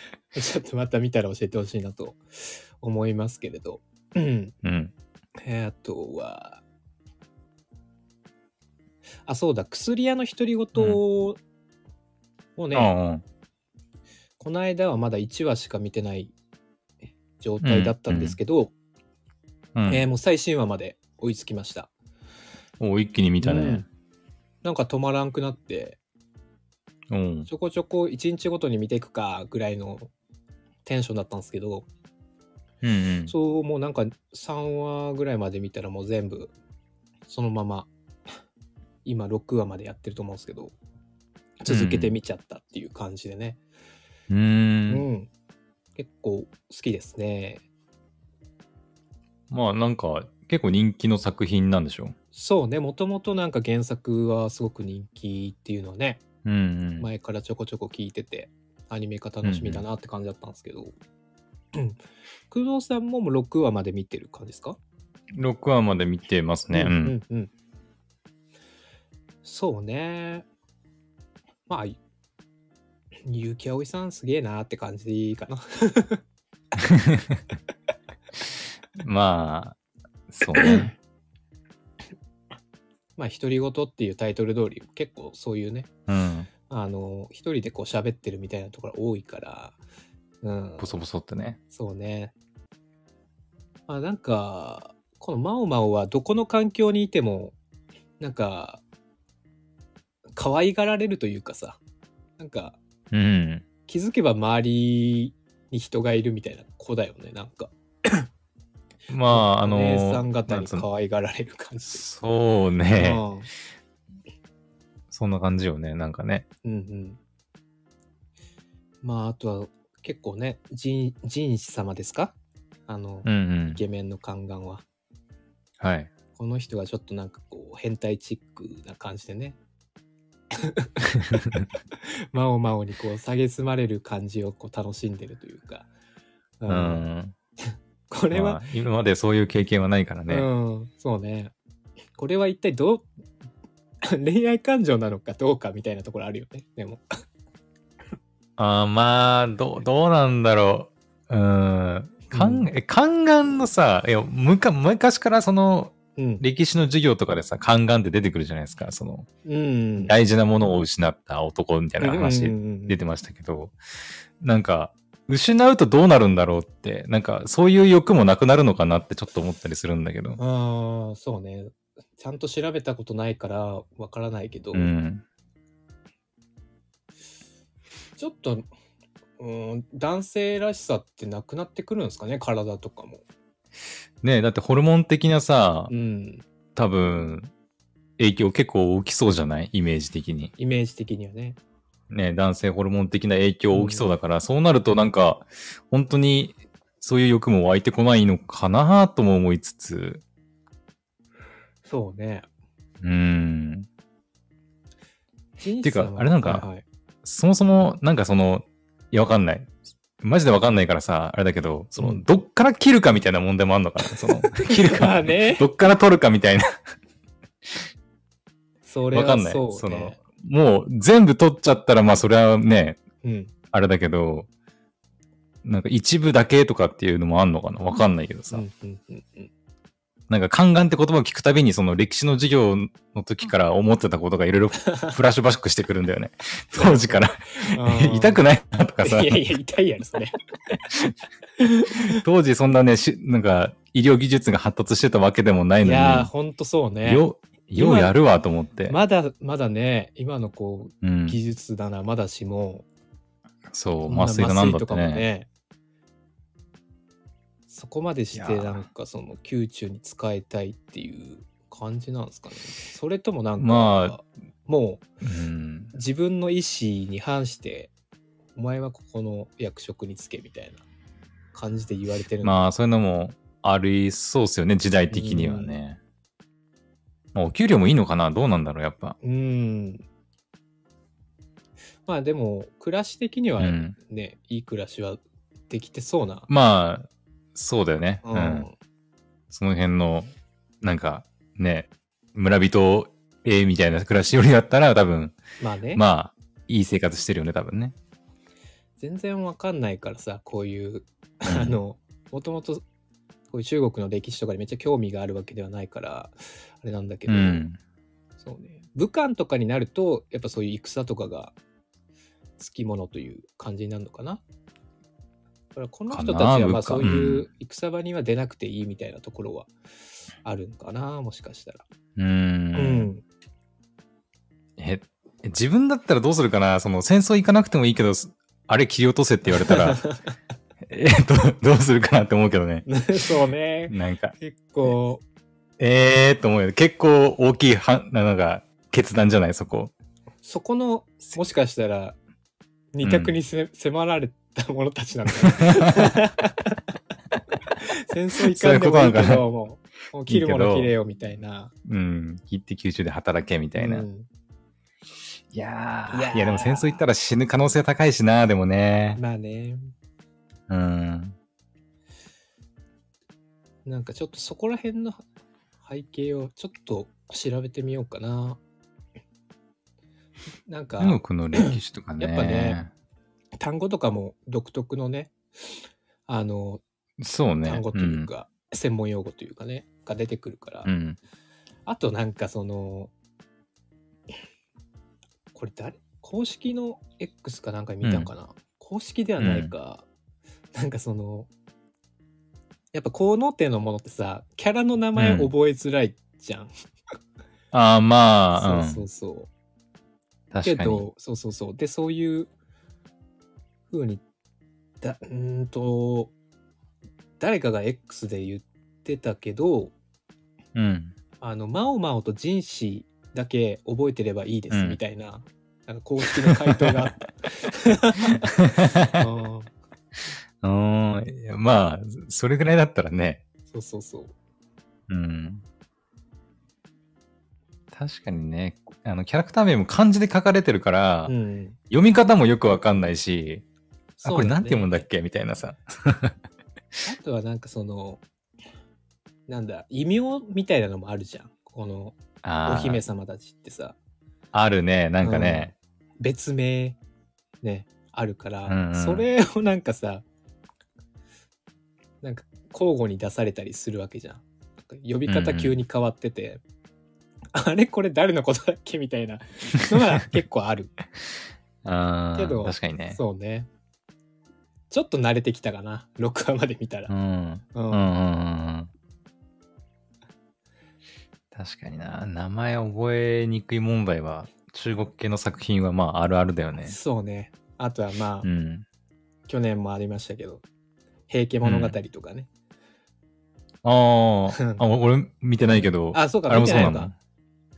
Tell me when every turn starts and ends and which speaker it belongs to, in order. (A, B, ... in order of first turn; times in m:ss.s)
0:00.3-0:04.6 A
0:04.6-0:04.9 B
0:05.4-0:06.6 A
0:09.2-0:11.4 A
0:12.6-0:12.9 A
0:12.7-0:13.2 B
0:14.4-0:16.3 A
0:17.4-0:18.7 A
0:17.6-0:18.4 B
0:19.8-0:20.0 B
0:19.9-0:21.9 A
0:22.8-0:23.9 B
0:23.4-0:23.9 A
0:24.6-0:26.0 A
0:27.1-0:27.5 B
0:27.5-0:30.1 A
0:30.8-0:31.9 A
0:32.8-0:33.3 B
0:33.3-0:36.5 A
0:37.3-0:37.9 A
0:39.0-0:40.8 A
0:41.6-0:43.6 A
0:41.7-0:42.1 B
0:44.3-0:45.0 B
0:44.9-0:45.3 A
0:46.0-0:47.6 A
0:49.5-0:52.2 B
0:52.3-0:56.2 A
0:56.4-0:57.1 B
0:57.0-1:00.9 A
0:59.4-0:59.8 B
1:02.5-1:04.8 A
1:05.3-1:07.2 B
1:06.7-1:07.5 A
1:09.4-1:10.4 A
1:11.7-1:12.0 A
1:13.3-1:16.2 A
1:16.8-1:17.4 B
1:19.0-1:19.8 B
1:20.3-1:20.9 B
1:23.2-1:25.9 A
1:26.1-1:26.5 B
1:26.7-1:29.8 A
1:30.4-1:30.9 A
1:30.8-1:31.6 B
1:31.7-1:32.3 A
1:33.9-1:37.6 A
1:38.2-1:38.8 A
1:40.4-1:41.8 A
1:42.4-1:42.8 A
1:43.1-1:43.6 B
1:43.9-1:48.3 A
1:49.1-1:50.8 B
1:49.3-1:52.0 A
1:51.9-1:53.2 B
1:53.0-1:53.5 A
1:55.1-1:56.4 B
1:56.6-1:57.2 A
1:59.0-2:02.4 A
2:02.9-2:04.8 A
2:03.2-2:03.8 B
2:05.8-2:06.1 B
2:06.3-2:09.6 A
2:10.5-2:15.9 A
2:11.2-2:11.6 B
2:16.6-2:17.0 A
2:16.7-2:17.3 B
2:17.7-2:18.6 A
2:18.3-2:20.5 B
2:20.3-2:21.5 A
2:22.2-2:23.1 A
2:24.0-2:27.0 A
2:28.6-2:39.3 B
2:32.3-2:32.7 A
2:36.2-2:36.4 A
2:39.4-2:40.1 A
2:40.0-2:43.8 B
2:42.0-2:43.0 A
2:44.4-2:50.4 B
2:50.4-2:54.9 A
2:54.7-2:55.2 B
2:58.2-2:58.7 A
2:59.4-3:03.2 A
3:04.2-3:05.9 B
3:05.9-3:06.4 A
3:06.8-3:07.5 B
3:08.2-3:10.5 B
3:10.6-3:11.6 A
3:12.1-3:20.2 B
3:13.7-3:14.0 A
3:21.8-3:22.4 A
3:23.0-3:23.9 B
3:25.6-3:26.8 A
3:25.8-3:26.7 B
3:27.2-3:36.7 B
3:32.0-3:32.2 A
3:34.1-3:35.7 A
3:38.9-3:40.2 A
3:39.1-3:43.0 B
3:43.2-3:43.5 A
3:43.7-3:44.5 B
3:45.6-3:48.6 B
3:48.5-3:49.5 A
3:50.3-3:59.4 B
3:54.9-3:55.2 A
3:56.7-3:58.4 A
3:59.0-4:00.4 A
4:00.9-4:06.3 B
4:01.8-4:02.2 A
4:05.8-4:08.2 A
4:07.0-4:09.0 B
4:08.9-4:12.9 A
4:11.0-4:11.4 B
4:13.7-4:15.3 B
4:14.1-4:15.5 A
4:17.7-4:25.0 A
4:18.3-4:18.9 B
4:23.6-4:24.2 B
4:25.2-4:25.9 B
4:25.9-4:27.9 A
4:28.6-4:30.8 A
4:31.5-4:32.6 A
4:32.4-4:36.0 B
4:35.1-4:35.7 A
4:37.3-4:39.2 B
4:39.2-4:40.0 A
4:42.1-4:46.5 A
4:43.6-4:43.9 B
4:46.5-4:48.7 B
4:48.2-4:48.7 A
4:49.5-4:55.4 B
4:55.6-4:56.0 A
4:55.9-4:58.0 B
4:59.0-5:02.8 A
5:01.4-5:01.7 B
5:03.5-5:07.7 A
5:07.3-5:07.8 B
5:08.4-5:11.6 A
5:12.6-5:14.4 A
5:15.8-5:19.7 A
5:16.1-5:17.5 B
5:20.4-5:21.8 A
5:22.2-5:23.1 B
5:22.8-5:23.2 A
5:24.8-5:30.0 B
5:29.5-5:30.3 A
5:30.9-5:32.9 B
5:32.9-5:35.2 A
5:33.9-5:34.3 B
5:35.8-5:39.9 B
5:40.4-5:42.2 A
5:42.9-5:46.8 A
5:43.0-5:43.3 B
5:45.5-5:46.1 B
5:47.8-5:51.7 A
5:48.4-5:49.4 B
5:50.3-5:50.9 B
5:51.8-5:54.1 B
5:53.8-5:54.3 A
5:55.5-5:59.2 B
5:56.1-5:57.0 A
5:59.2-5:59.9 A
6:00.7-6:01.4 B
6:03.8-6:05.2 A
6:05.8-6:08.6 A
6:10.7-6:12.8 A
6:11.0-6:12.9 B
6:13.6-6:15.3 A
6:16.3-6:16.8 A
6:17.2-6:18.3 B
6:17.6-6:20.9 A
6:20.8-6:21.2 B
6:21.9-6:23.1 A
6:25.5-6:30.1 A
6:28.0-6:28.3 B
6:29.4-6:29.7 B
6:30.7-6:31.5 A
6:32.9-6:36.7 A
6:35.2-6:35.5 B
6:37.7-6:39.1 B
6:38.6-6:39.5 A
6:40.5-6:41.1 B
6:40.6-6:42.5 A
6:43.9-6:44.2 A
6:45.0-6:46.3 A
6:47.4-6:49.9 A
6:50.8-6:51.2 B
6:51.4-6:59.7 A
6:54.7-6:55.0 B
6:56.5-6:57.1 B
6:58.4-6:59.2 B
7:00.6-7:03.4 B
7:03.7-7:04.3 A
7:05.1-7:05.6 B
7:07.9-7:11.3 B
7:11.3-7:11.8 A
7:11.9-7:13.6 B
7:14.2-7:15.0 A
7:14.2-7:16.4 B
7:17.0-7:18.2 A
7:19.5-7:24.0 A
7:22.4-7:23.0 B
7:24.5-7:25.7 B
7:25.2-7:27.0 A
7:27.6-7:30.2 A
7:28.7-7:29.3 B
7:32.2-7:36.6 A
7:35.3-7:35.8 B
7:37.5-7:40.9 A
7:41.8-7:43.2 B
7:42.4-7:43.7 A
7:44.9-7:47.1 A
7:47.1-7:48.9 B
7:47.7-7:48.1 A
7:51.5-7:57.0 B
7:56.8-7:58.5 A
7:58.4-7:58.8 B
7:59.5-8:00.6 A
8:01.3-8:02.5 A
8:01.6-8:02.0 B
8:03.8-8:07.2 B
8:04.6-8:04.8 A
8:06.1-8:07.1 A